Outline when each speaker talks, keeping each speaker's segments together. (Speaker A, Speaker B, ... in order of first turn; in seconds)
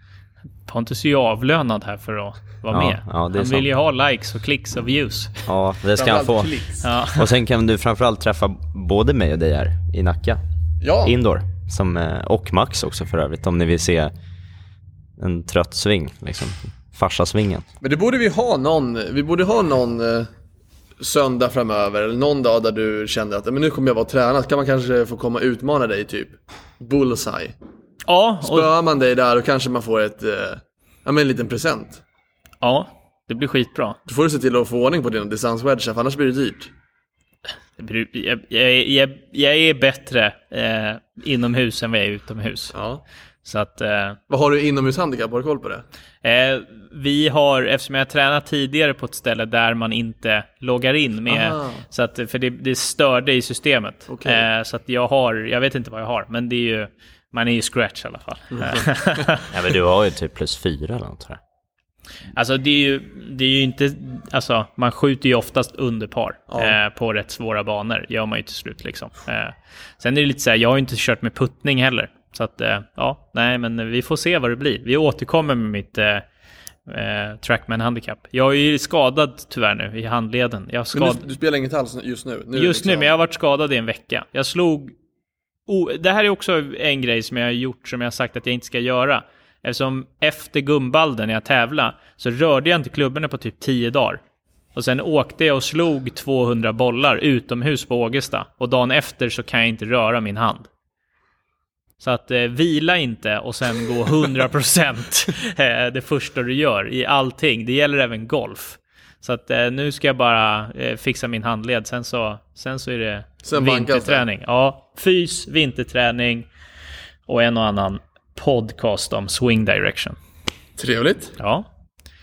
Speaker A: 0.7-5.4, 6.8-7.3, 28.1-28.7, 32.6-34.0, 37.8-42.7, 43.5-44.2, 46.2-59.5, 62.4-76.2, 76.9-81.2, 82.5-84.9, 85.7-94.2, 94.7-100.7, 102.0-116.5, 117.3-120.2, 121.4-121.7
Speaker B: 2.7-3.7, 5.5-10.4, 11.0-14.1, 15.2-17.7, 59.5-61.4
Speaker C: 6.0-6.9, 10.8-11.2, 17.8-20.3, 21.0-27.6, 28.4-32.0, 34.1-36.7, 42.7-43.0, 44.3-45.9, 51.3-51.8, 54.1-54.5, 58.6-58.9, 66.5-66.8, 80.9-83.1, 113.4-114.2, 120.8-121.4